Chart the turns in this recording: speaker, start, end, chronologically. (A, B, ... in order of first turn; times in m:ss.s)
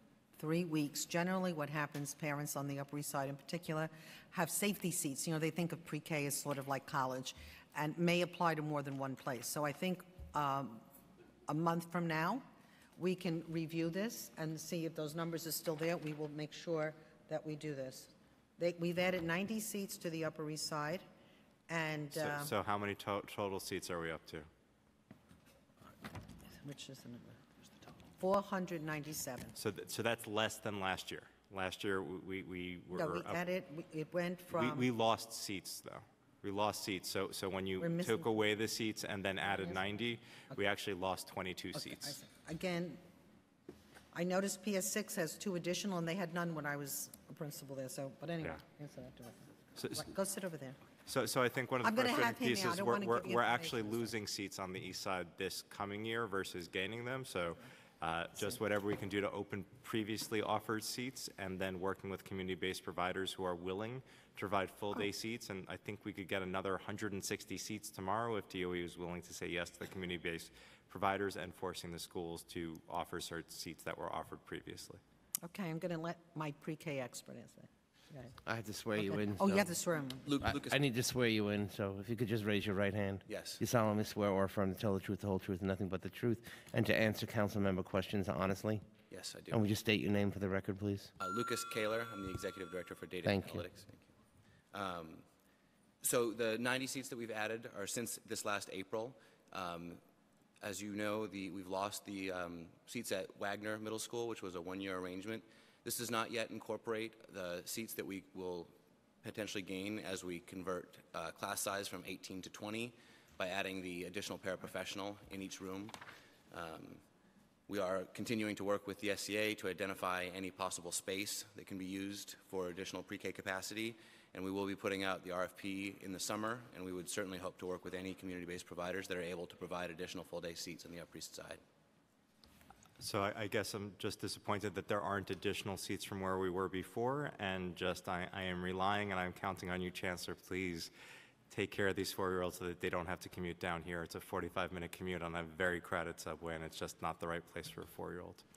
0:00.4-0:10.8 A
0:11.5-0:12.4 A
0:13.0-0:21.0 A
0:21.7-0:22.5 A
0:22.1-0:24.5 B
0:26.6-0:27.4 A
0:28.2-0:29.5 A
0:29.6-0:33.4 B
0:32.9-0:34.9 A
0:34.5-0:42.2 B
0:37.8-0:38.4 A
0:41.7-0:43.0 A
0:44.1-0:50.8 A
0:49.8-0:50.0 B
0:51.0-1:15.0 B
0:51.8-0:54.1 A
1:15.4-1:18.4 A
1:18.4-1:19.7 C
1:19.0-1:20.4 A
1:20.2-1:20.8 D
1:20.4-1:28.9 C
1:23.3-1:23.6 D
1:29.1-1:29.6 D
1:29.5-1:31.1 C
1:31.2-1:34.1 D
1:33.2-1:33.6 C
1:34.7-1:35.2 D
1:36.0-1:40.0 D
1:40.6-1:48.7 D
1:49.2-1:56.0 D
1:56.5-1:57.0 D
1:57.7-2:11.6 D
2:13.0-2:20.9 B
2:21.5-2:28.4 B